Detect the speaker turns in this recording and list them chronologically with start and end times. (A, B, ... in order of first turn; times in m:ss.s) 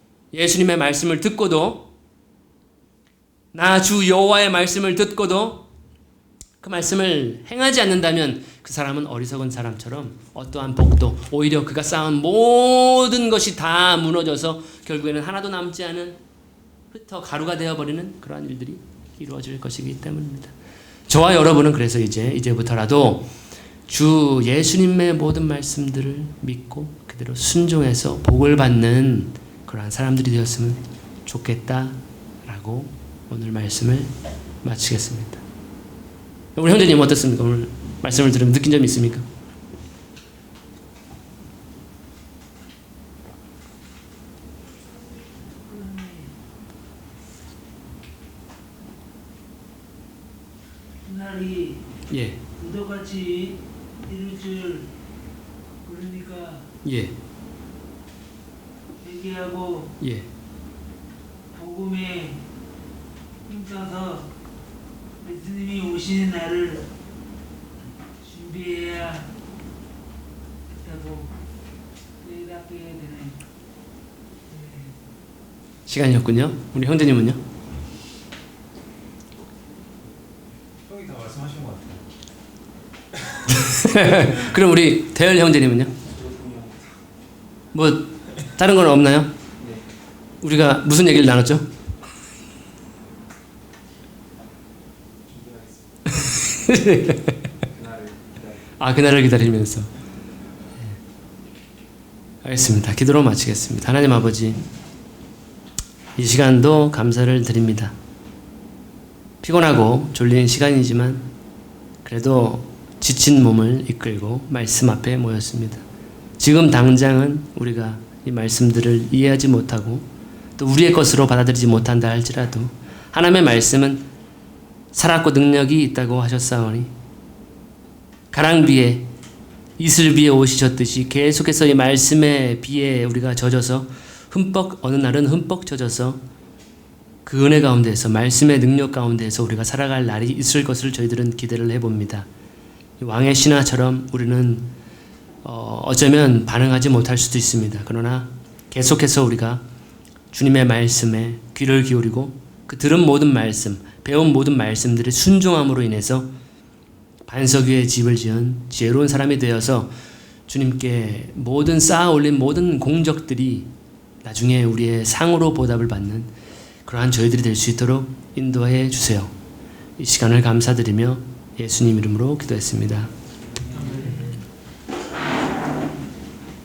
0:00.3-0:01.9 A
0:03.5-0:05.6 A
0:06.6-0:16.2 A
0:16.9-0:20.5 A
0:21.1-0:23.3 A
0:23.9-0:34.1 A
0:34.6-0:35.4 A
0:36.6-0:39.2 A
0:45.7-0:46.3 B
0:51.0-0:51.8 B
0:52.1-0:52.4 A
0:52.6-0:54.9 B
0:55.8-0:56.7 B
0:56.8-0:57.2 A
0:59.0-0:59.9 B
1:00.0-1:00.3 A
1:01.5-1:02.4 B
1:03.6-1:04.3 B
1:05.2-1:06.9 B
1:08.3-1:09.3 B
1:10.8-1:11.3 B
1:12.2-1:13.4 B
1:14.5-1:14.9 B
1:15.9-1:17.4 A
1:20.9-1:22.0 C
1:23.4-1:26.0 A
1:26.1-1:26.9 C
1:27.7-1:29.3 A
1:30.4-1:31.7 A
1:35.2-1:36.0 C
1:36.1-1:37.5 A
1:37.7-1:38.5 C
1:38.8-1:39.9 A
1:42.4-1:44.6 A
1:46.2-1:47.9 A
1:49.4-1:51.3 A
1:52.0-1:55.8 A
1:56.4-2:00.0 A
2:00.6-2:04.0 A
2:04.9-2:06.9 A
2:08.3-2:09.1 A
2:09.8-2:16.2 A
2:17.2-2:22.3 A
2:23.0-2:24.7 A
2:25.4-2:29.6 A
2:30.3-2:36.3 A
2:37.3-2:39.9 A
2:40.5-2:43.7 A
2:44.2-2:46.3 A
2:46.8-2:49.3 A
2:50.0-2:53.1 A
2:53.7-2:54.1 C